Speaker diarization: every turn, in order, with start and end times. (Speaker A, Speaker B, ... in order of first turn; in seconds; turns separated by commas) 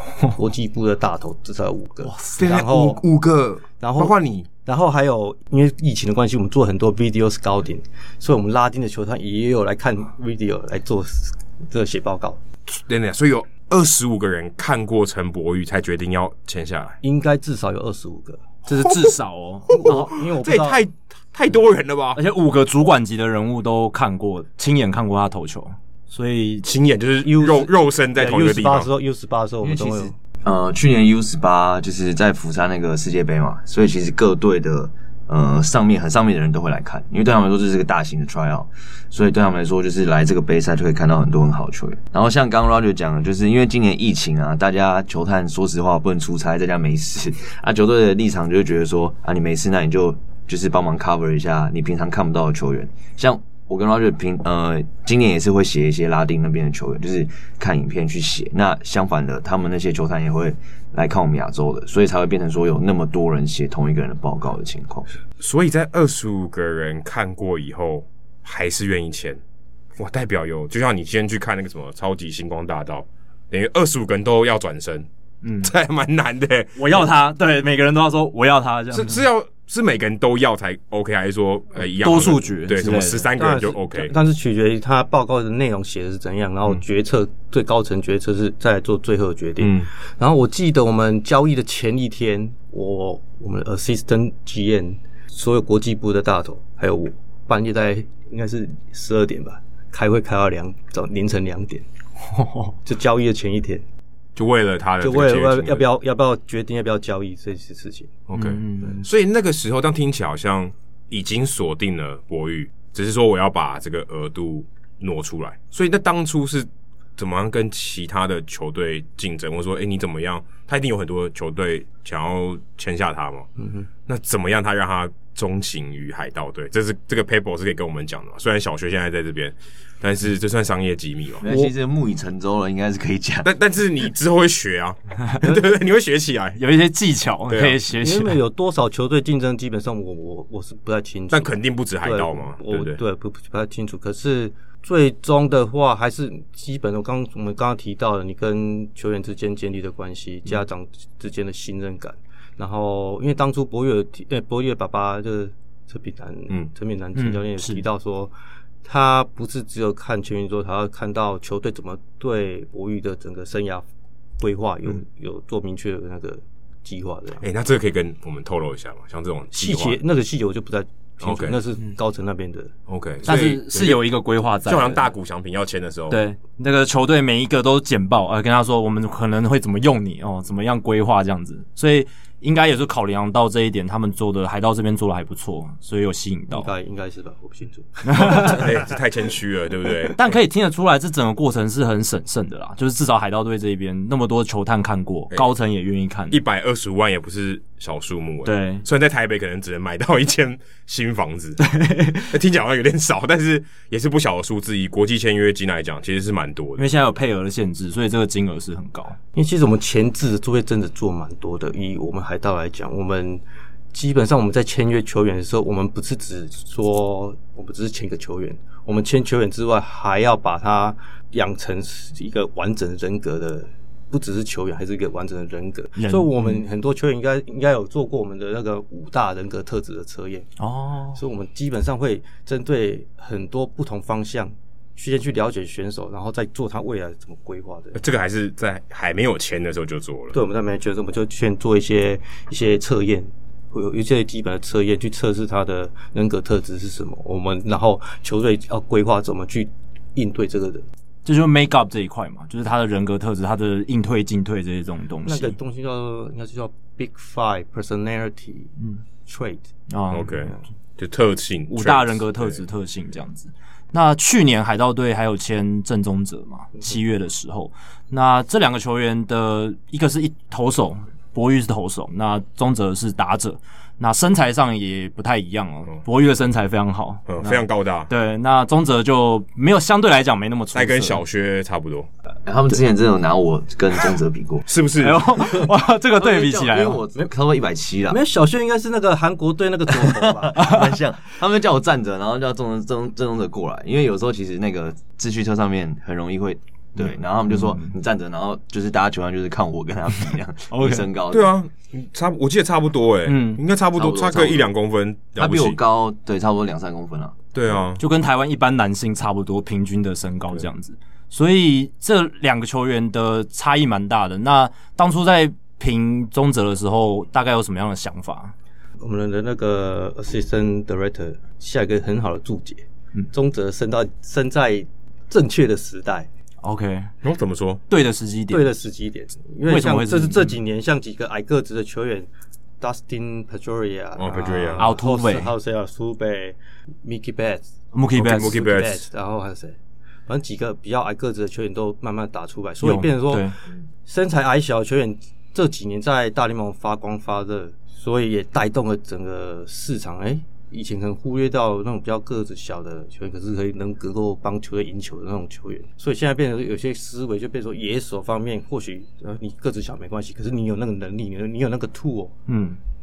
Speaker A: 0.3-3.0, Speaker B: 2.3-4.5, Speaker A: 3.8-12.4, Speaker B: 12.7-17.0, Speaker A: 17.0-18.9, Speaker C: 18.7-20.0, Speaker A: 19.7-20.8, Speaker B: 19.7-22.2, Speaker C: 22.1-26.6, Speaker B: 26.6-28.9, Speaker A: 27.2-30.1, Speaker D: 29.6-65.1, Speaker B: 65.4-69.4, Speaker B: 70.0-75.1, Speaker C: 75.4-75.7, Speaker B: 75.6-77.1, Speaker C: 76.8-79.2, Speaker B: 78.9-84.1, Speaker C: 82.0-83.3, Speaker A: 83.3-101.8, Speaker B: 89.6-89.9, Speaker C: 102.3-102.7, Speaker A: 102.8-103.8, Speaker B: 104.3-105.8, Speaker A: 105.0-108.2, Speaker B: 108.3-123.5, Speaker C: 108.3-109.0, Speaker A: 123.6-123.9, Speaker B: 124.1-131.4, Speaker D: 131.4-133.5, Speaker A: 131.4-131.7, Speaker B: 133.4-136.6, Speaker C: 136.6-138.4, Speaker B: 137.5-137.8, Speaker A: 137.9-158.3, Speaker B: 141.3-143.0, Speaker C: 157.1-157.8, Speaker A: 158.8-163.8, Speaker A: 164.4-167.4, Speaker B: 167.4-170.0, Speaker A: 169.5-172.7, Speaker B: 171.2-171.6, Speaker B: 172.9-174.1, Speaker C: 173.2-175.1, Speaker B: 174.6-176.2, Speaker C: 176.1-186.7, Speaker A: 186.5-188.9, Speaker C: 188.0-188.6, Speaker B: 188.1-190.2, Speaker C: 190.2-196.4, Speaker B: 196.3-201.6, Speaker C: 198.4-198.8, Speaker C: 201.6-202.3, Speaker B: 202.3-206.9, Speaker C: 206.8-209.2, Speaker A: 209.3-230.5, Speaker C: 226.0-226.6, Speaker C: 230.6-231.2, Speaker A: 231.1-238.0, Speaker B: 237.9-240.3, Speaker A: 240.3-250.8, Speaker C: 251.2-255.6, Speaker A: 255.2-259.7, Speaker C: 259.9-260.5, Speaker B: 260.1-262.6, Speaker C: 261.7-281.2, Speaker B: 277.3-278.1, Speaker B: 280.7-282.1, Speaker D: 282.4-284.6, Speaker B: 284.7-285.6, Speaker C: 285.0-287.0, Speaker D: 286.2-288.2, Speaker A: 288.1-290.9, Speaker D: 289.9-301.5, Speaker C: 290.6-290.9, Speaker C: 297.5-297.9, Speaker C: 300.7-301.1, Speaker B: 301.3-305.8, Speaker C: 303.2-303.6, Speaker D: 303.9-304.7, Speaker D: 305.4-307.4, Speaker B: 307.5-308.0, Speaker C: 308.0-318.5, Speaker A: 319.0-326.3, Speaker C: 326.6-327.1, Speaker B: 327.2-327.8, Speaker C: 327.9-328.7, Speaker A: 328.5-332.3, Speaker C: 329.6-330.5, Speaker A: 332.8-343.5, Speaker B: 334.2-334.9, Speaker C: 334.8-335.5, Speaker C: 337.9-338.6, Speaker B: 338.1-339.1, Speaker C: 342.8-343.5, Speaker A: 344.1-362.3, Speaker C: 362.5-362.8